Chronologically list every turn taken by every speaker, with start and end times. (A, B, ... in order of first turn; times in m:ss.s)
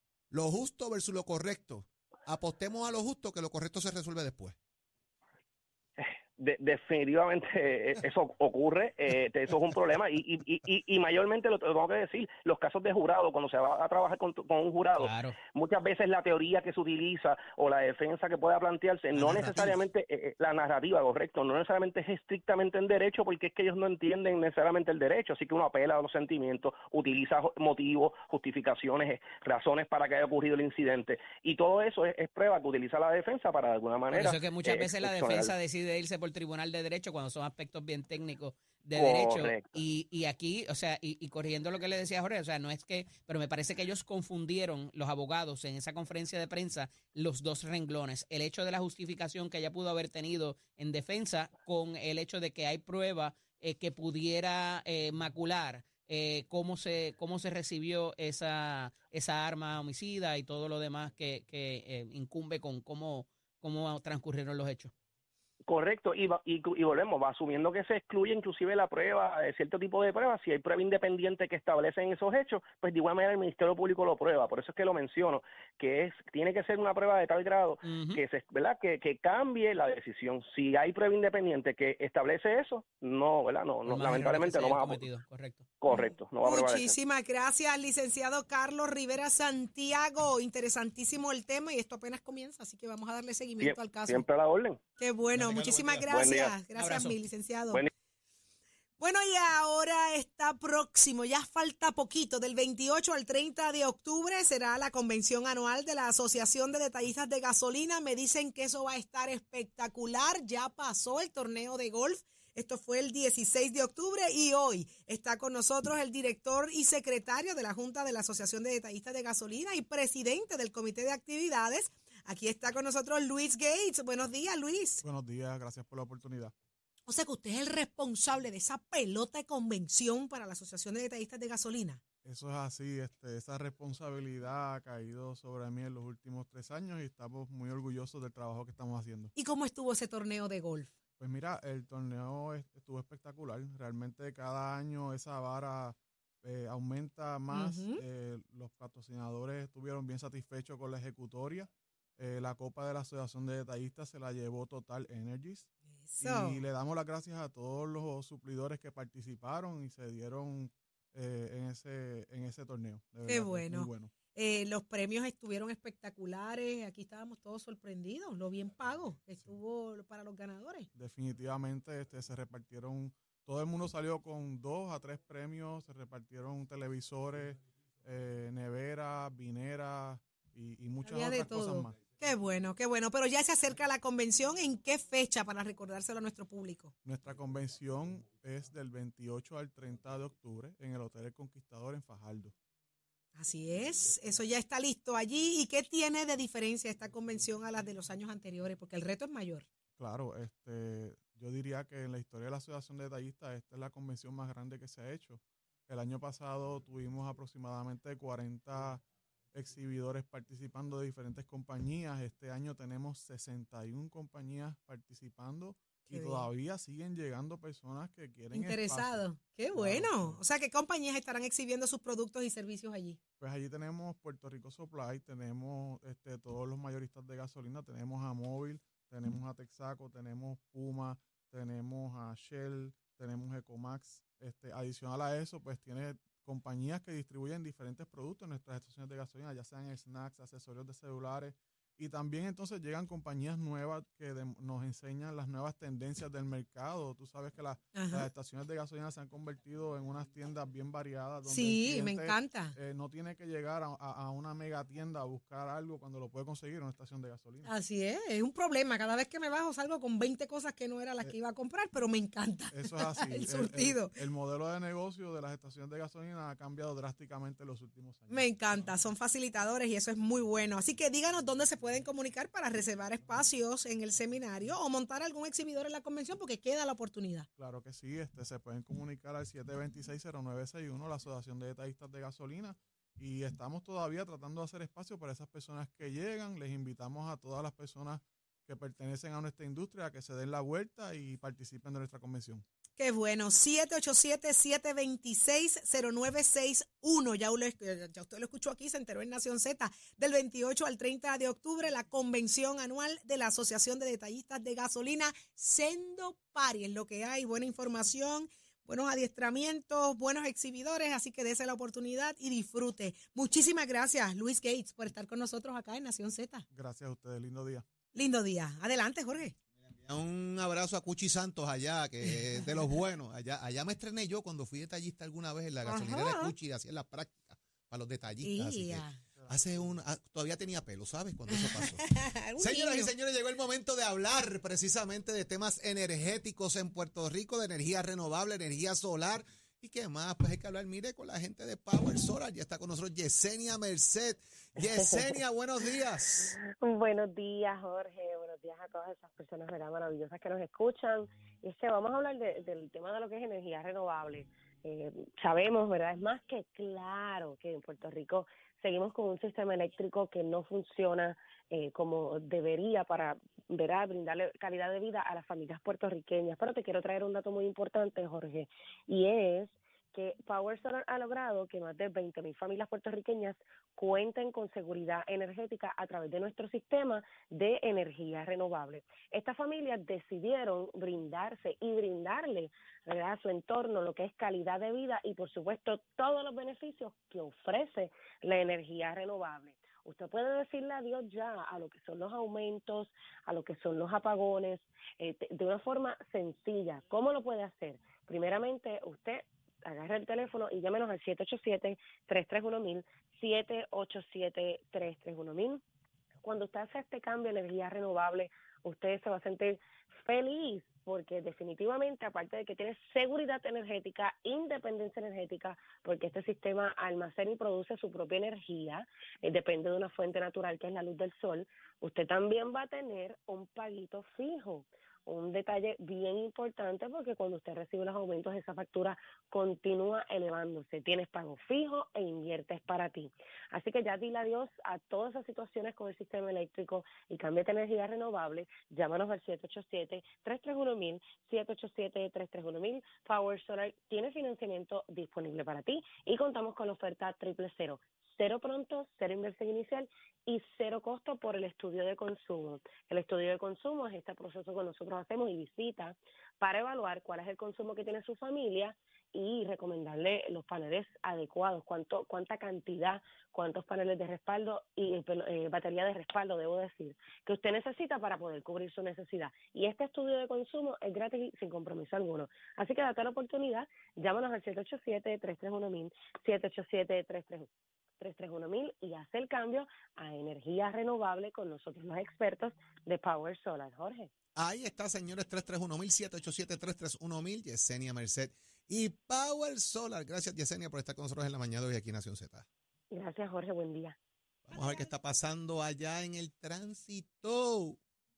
0:00.3-0:04.6 A
0:06.0-0:35.5 B
0:15.0-0:15.4 C
0:19.2-0:19.7 A
0:34.1-1:04.9 C
0:39.0-0:39.7 B
1:05.7-1:25.0 B
1:17.8-1:18.2 C
1:23.9-1:25.8 C
1:25.8-1:26.9 B
1:25.9-1:34.2 D
1:33.6-1:34.8 B
1:35.0-1:37.9 D
1:35.4-1:36.1 A
1:36.1-1:36.6 B
1:36.8-1:37.2 C
1:39.0-2:05.0 D
2:05.0-2:06.5 E
2:07.1-2:12.0 D
2:12.2-2:19.3 E
2:19.4-2:20.9 D
2:21.2-2:35.7 E
2:27.5-2:28.0 D
2:35.9-2:36.6 D
2:36.2-2:44.1 E
2:43.3-2:50.9 D
2:50.9-3:02.0 E
3:01.0-3:06.9 D
3:07.0-3:12.5 E
3:13.4-3:19.7 D
3:20.0-3:40.4 E
3:36.1-3:36.5 D
3:38.5-3:43.2 D
3:43.4-4:17.7 E
4:08.0-4:08.3 D
4:11.5-4:12.8 D
4:17.6-4:24.2 D
4:22.7-4:28.9 E
4:28.3-4:37.5 D
4:37.6-4:52.6 E
4:53.0-5:16.6 D
5:16.7-5:17.9 E
5:18.2-5:19.6 D
5:20.0-5:46.6 A
5:25.8-5:26.5 D
5:28.4-5:29.2 D
5:29.4-5:29.9 E
5:31.6-5:33.1 D
5:44.8-5:45.3 F
5:46.5-6:45.8 F
6:46.4-7:57.7 F
7:58.2-8:04.3 F
8:04.6-8:12.7 A
8:13.1-8:14.2 F
8:14.7-8:18.0 A